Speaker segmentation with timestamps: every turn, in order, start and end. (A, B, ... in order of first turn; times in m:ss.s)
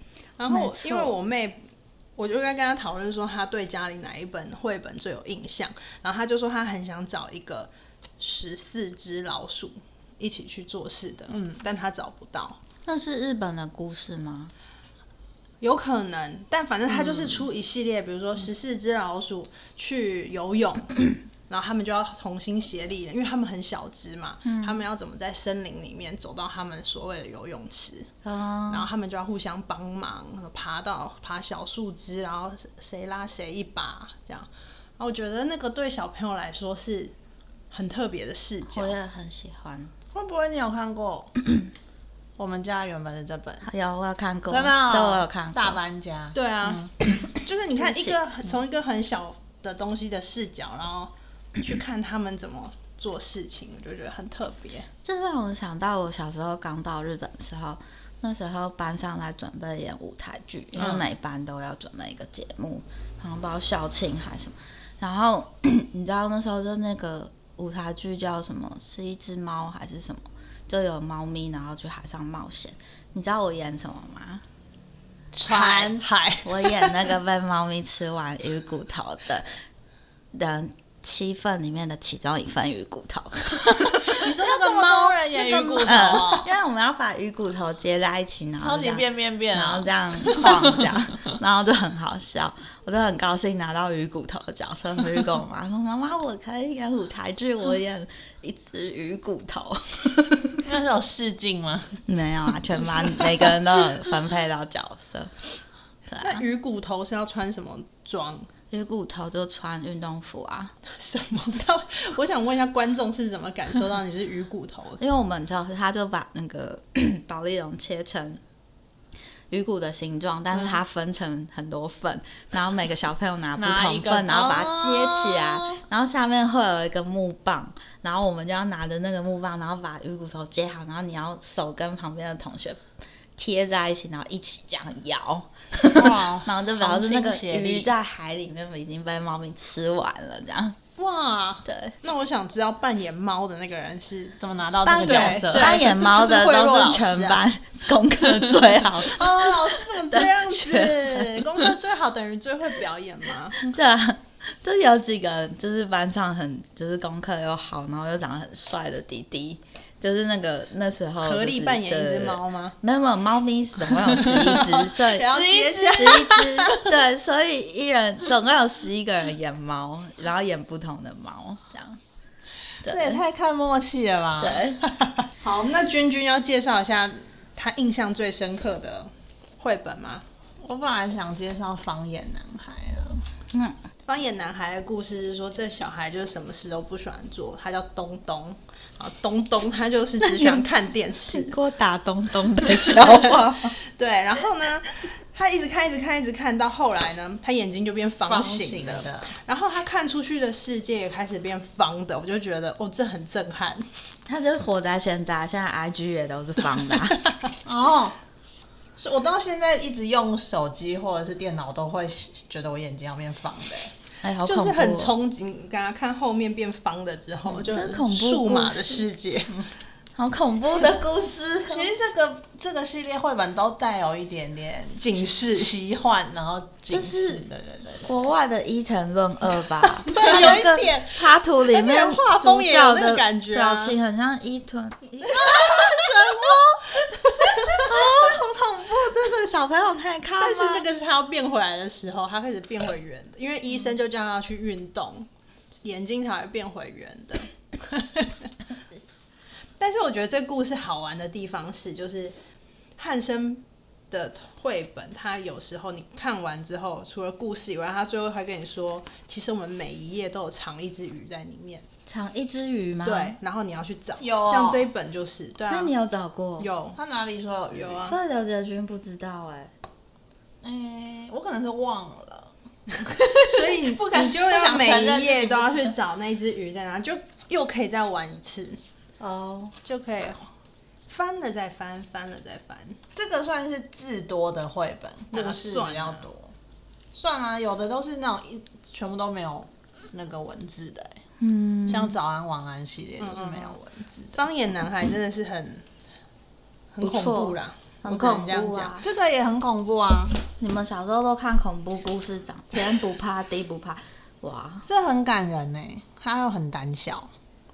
0:00.4-0:01.6 A
0:00.5-0:01.1 B
0:02.2-0:12.6 A
0:12.9-0:14.5 B
0:15.6-0:28.1 A
0:24.4-0:24.8 B
0:28.2-0:28.9 B
0:28.7-0:34.5 A
0:35.0-0:37.2 A
0:37.7-0:39.0 A
0:38.7-0:39.9 B
0:40.1-0:41.3 C
0:42.4-0:43.7 C
0:43.6-0:45.8 B
0:44.5-0:46.9 C
0:46.3-0:54.9 A
0:47.8-0:48.2 B
0:55.0-1:14.4 B
1:15.4-1:16.1 C
1:15.4-1:17.1 A
1:16.4-1:19.5 B
1:20.3-1:24.0 B
1:24.1-1:26.4 A
1:24.1-1:26.5 C
1:25.8-1:40.6 B
1:28.6-1:31.0 C
1:40.6-1:42.0 C
1:42.1-1:45.3 B
1:43.0-1:43.5 C
1:46.1-1:46.4 B
1:46.2-1:48.5 A
1:48.7-1:50.7 B
1:50.9-1:55.0 A
1:55.0-1:58.4 B
1:59.5-2:12.8 B
2:03.6-2:05.8 C
2:13.4-2:20.8 B
2:15.9-2:17.9 C
2:21.0-2:24.4 A
2:21.6-2:22.0 B
2:24.4-2:25.9 C
2:24.8-2:31.7 B
2:25.0-2:27.4 A
2:29.2-2:33.7 A
2:33.6-2:52.0 B
2:41.2-2:42.8 A
2:44.1-2:46.7 C
2:45.2-2:46.7 A
2:52.8-2:53.2 B
2:52.8-2:54.7 C
2:54.4-2:54.9 B
2:55.4-3:00.2 A
3:00.6-3:03.2 C
3:03.5-3:03.8 B
3:04.1-3:11.6 A
3:10.2-3:10.6 B
3:11.2-3:13.8 B
3:12.6-3:23.9 A
3:18.2-3:19.4 C
3:24.3-3:27.4 B
3:26.9-3:27.3 A
3:27.6-3:28.2 C
3:29.0-3:33.9 C
3:34.2-3:35.1 B
3:34.4-3:39.7 A
3:37.5-3:39.1 B
3:40.2-3:41.9 B
3:41.7-3:48.2 C
3:45.0-3:45.7 A
3:46.9-3:47.4 B
3:48.0-3:56.6 B
3:50.1-3:50.9 C
3:50.1-3:54.0 A
3:55.3-3:59.1 A
3:55.4-3:56.5 C
3:57.4-4:00.9 B
4:00.4-4:05.3 A
4:05.8-4:08.5 A
4:09.8-4:12.4 A
4:13.0-4:21.9 A
4:22.1-4:23.4 B
4:23.0-4:25.9 A
4:24.2-4:24.9 C
4:25.7-4:26.7 B
4:26.6-4:27.0 A
4:26.9-4:28.1 C
4:27.7-4:28.2 A
4:28.0-4:29.7 B
4:30.6-4:36.0 C
4:33.3-4:38.8 A
4:39.2-4:39.7 B
4:39.8-4:40.5 A
4:41.1-4:43.0 A
4:43.1-4:46.5 C
4:45.3-4:46.2 A
4:47.1-4:51.2 C
4:51.4-4:52.2 B
4:51.9-4:54.5 C
4:53.2-4:53.8 A
4:54.4-4:55.8 A
4:56.9-4:59.0 A
4:57.0-4:59.0 B
4:59.0-5:00.4 C
5:00.6-5:04.9 B
5:04.8-5:07.3 C